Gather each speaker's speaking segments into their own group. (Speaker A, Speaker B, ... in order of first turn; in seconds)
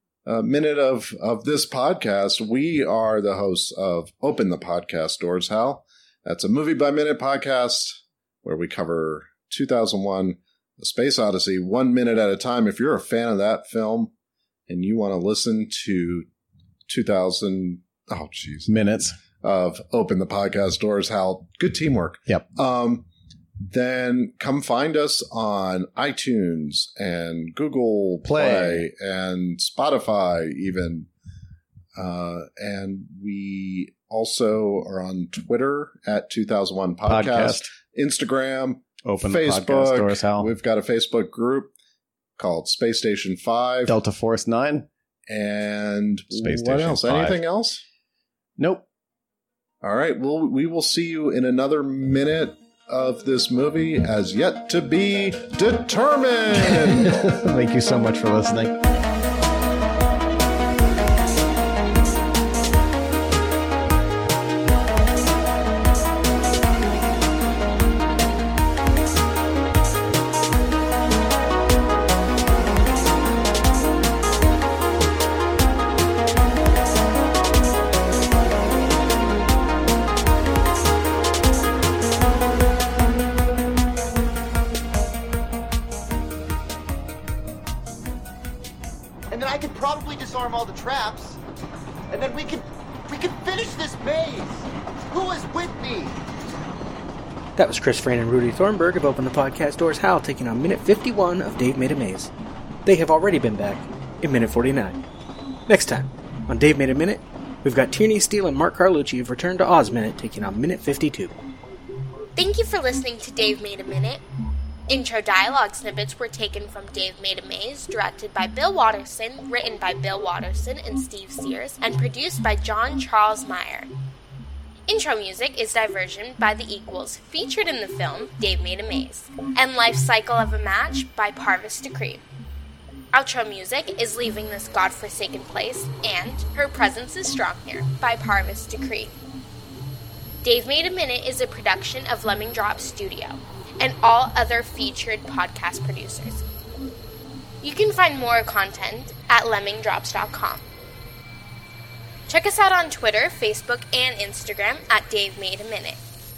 Speaker A: 0.2-14.1, 14.7-16.2, 16.9-18.7, 19.4-23.1, 23.7-31.1, 32.0-41.7, 42.4-44.0, 45.3-47.8, 49.8-57.2
Speaker B: 18.6-19.1, 28.2-28.9, 37.0-37.7, 39.0-40.5, 43.9-44.9, 46.3-47.4, 48.6-48.8, 56.7-58.7
Speaker C: 89.3-91.4, 92.1-96.2
Speaker D: 97.5-102.3, 102.8-105.0, 105.7-111.3
Speaker E: 112.3-114.2, 114.9-123.9, 124.9-132.2, 133.1-139.1, 140.4-146.4, 147.6-150.6, 152.3-156.0